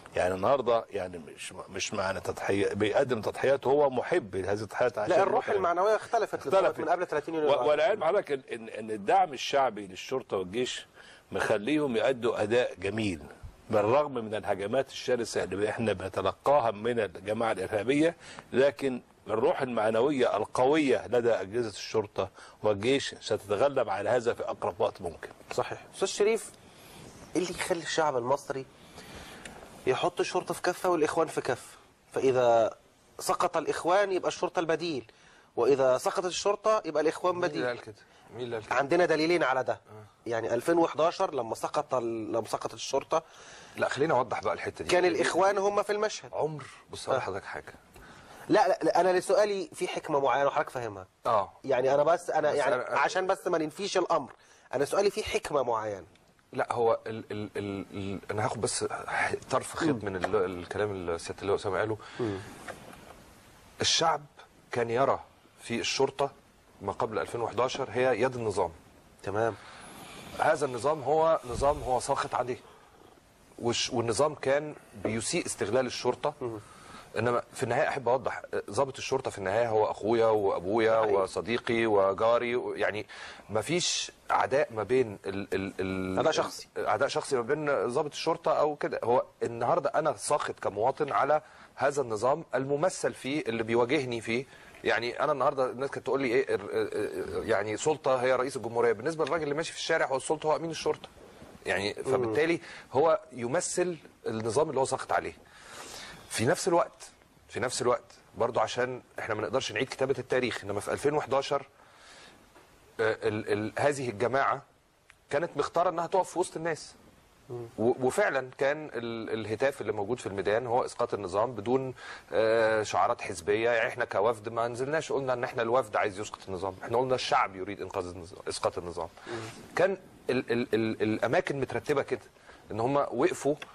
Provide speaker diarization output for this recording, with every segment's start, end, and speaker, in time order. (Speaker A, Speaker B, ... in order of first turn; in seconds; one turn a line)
Speaker A: 0.1-5.7
Speaker B: 5.1-8.0
Speaker A: 6.5-6.9
Speaker A: 7.4-25.3
Speaker B: 25.5-26.5
Speaker B: 27.3-28.7
Speaker B: 29.9-37.7
Speaker C: 37.3-38.8
Speaker B: 38.7-43.2
Speaker C: 43.8-45.4
Speaker B: 44.9-46.3
Speaker C: 46.3-47.8
Speaker B: 48.5-51.1
Speaker C: 51.2-51.5
Speaker B: 51.6-56.1
Speaker C: 52.5-53.1
Speaker C: 56.5-62.0
Speaker B: 62.2-62.4
Speaker C: 63.8-68.7
Speaker B: 69.2-69.6
Speaker C: 70.4-72.6
Speaker C: 73.6-76.4
Speaker C: 77.1-101.1
Speaker B: 80.9-81.2
Speaker B: 86.2-86.6
Speaker C: 101.7-105.4
Speaker B: 102.1-102.4
Speaker C: 106.3-111.6
Speaker C: 113.0-114.6
Speaker C: 115.3-116.9
Speaker C: 117.8-129.1
Speaker C: 129.7-133.6